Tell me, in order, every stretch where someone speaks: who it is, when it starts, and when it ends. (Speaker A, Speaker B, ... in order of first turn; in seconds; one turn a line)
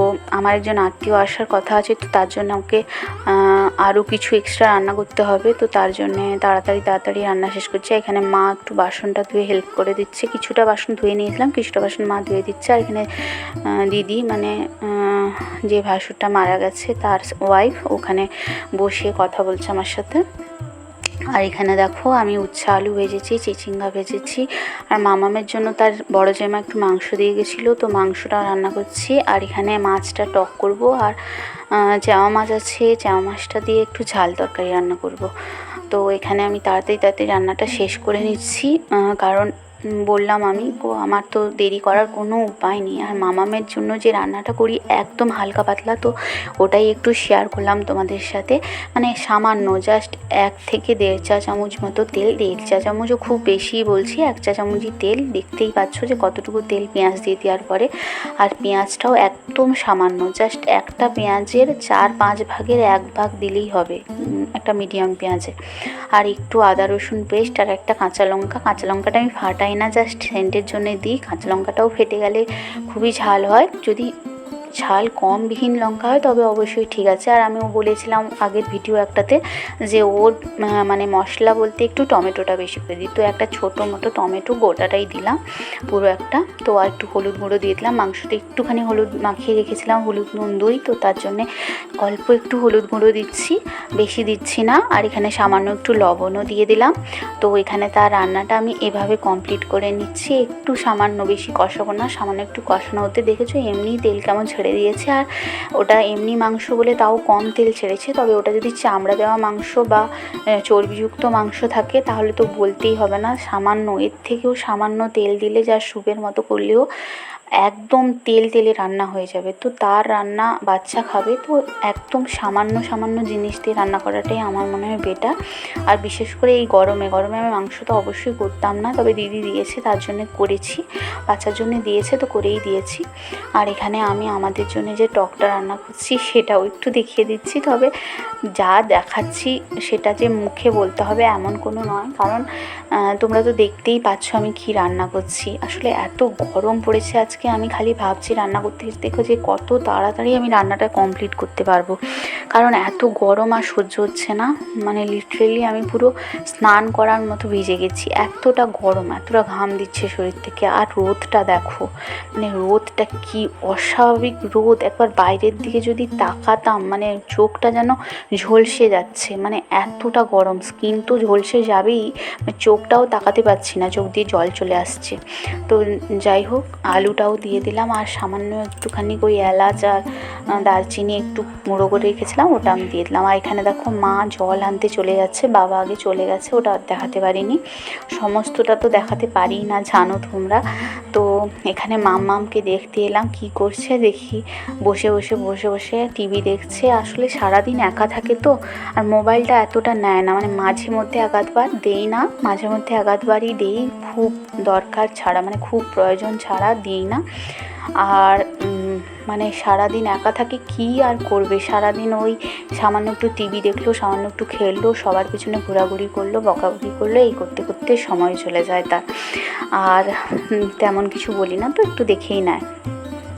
Speaker A: 0.4-13.1
Speaker A: 13.8-20.2
Speaker A: 21.3-31.2
Speaker A: 31.8-35.3
Speaker A: 35.9-39.5
Speaker A: 40.1-57.9
Speaker A: 58.4-64.0
Speaker A: 64.5-65.5
Speaker A: 66.2-74.1
Speaker A: 74.8-91.5
Speaker A: 92.0-105.2
Speaker A: 105.8-110.0
Speaker A: 110.7-116.8
Speaker A: 117.6-125.3
Speaker A: 125.9-133.0
Speaker A: 133.6-137.9
Speaker A: 138.6-142.4
Speaker A: 143.2-152.0
Speaker A: 152.5-161.8
Speaker A: 162.4-180.0
Speaker A: 180.6-187.6
Speaker A: 188.2-190.6
Speaker A: 191.1-207.2
Speaker A: 208.0-220.1
Speaker A: 220.7-222.6